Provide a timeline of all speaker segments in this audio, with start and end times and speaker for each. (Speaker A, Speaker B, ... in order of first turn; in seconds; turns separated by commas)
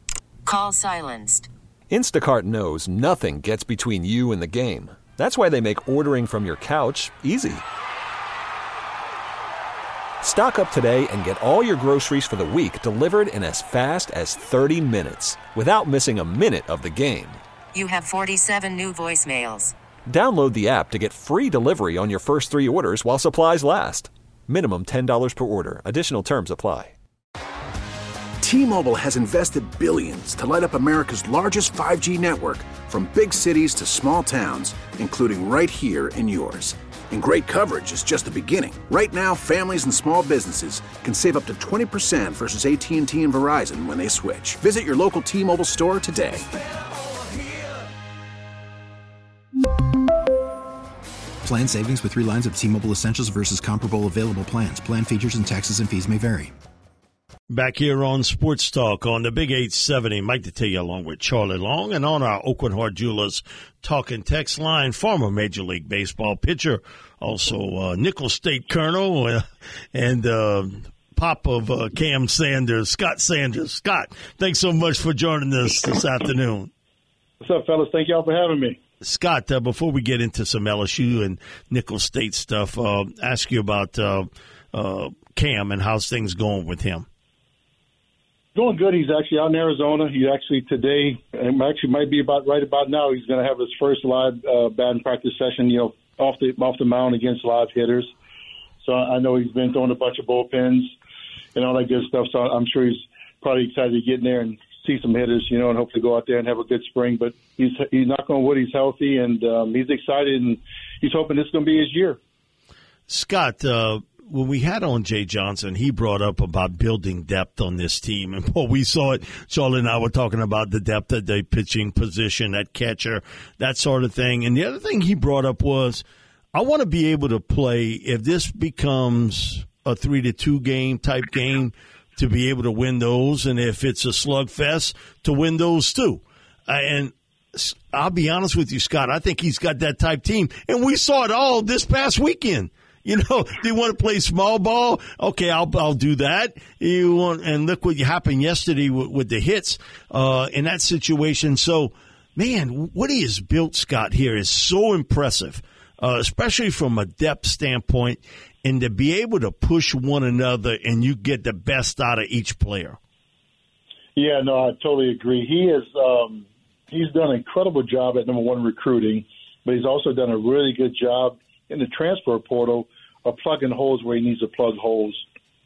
Speaker A: 0.4-1.5, Speaker B: 1.9-7.6, Speaker B: 10.2-17.4, Speaker A: 17.7-19.7, Speaker B: 20.1-26.9, Speaker C: 28.4-46.5, Speaker D: 51.4-56.5, Speaker E: 57.5-76.7, Speaker F: 77.4-78.8, Speaker E: 79.0-87.0, Speaker F: 88.5-98.1, Speaker F: 98.8-100.9, Speaker F: 101.5-112.2, Speaker E: 113.1-163.0, Speaker F: 164.2-175.2